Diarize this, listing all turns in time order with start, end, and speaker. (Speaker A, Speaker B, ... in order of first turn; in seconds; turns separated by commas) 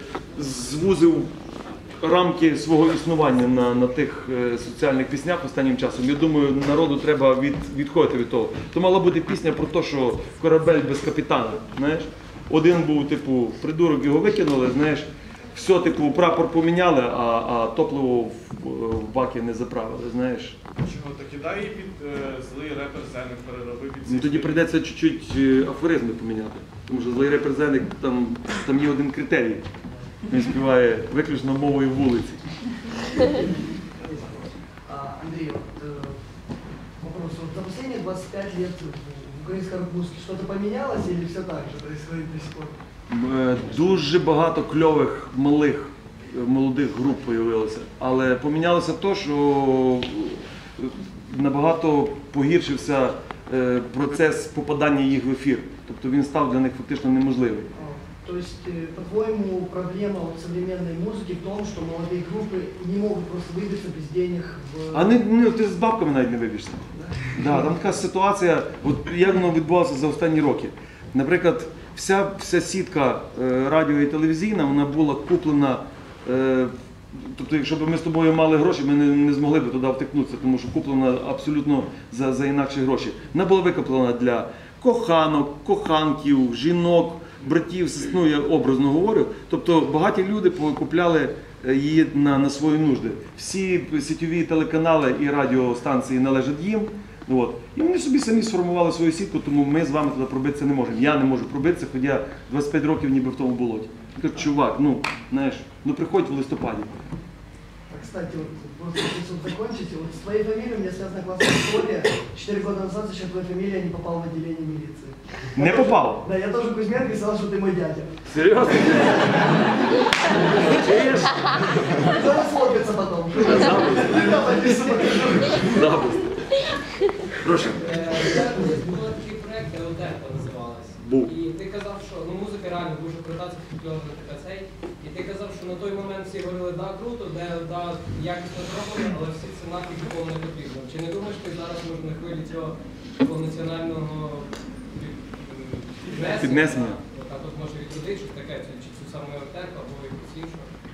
Speaker A: 0.3-1.3, Speaker A: 2.0-20.6, Speaker B: 20.8-24.6, Speaker A: 24.1-29.6, Speaker A: 30.3-32.4, Speaker C: 34.9-36.2, Speaker C: 37.0-42.7, Speaker A: 43.1-57.7, Speaker C: 57.7-65.1, Speaker A: 64.9-106.9, Speaker C: 67.0-67.5, Speaker C: 107.9-118.2, Speaker A: 115.5-116.2, Speaker A: 118.2-122.1, Speaker C: 121.8-125.8, Speaker A: 123.4-124.3, Speaker A: 125.5-126.6, Speaker A: 127.3-128.2, Speaker D: 127.8-150.7, Speaker A: 131.0-131.3, Speaker A: 146.2-147.0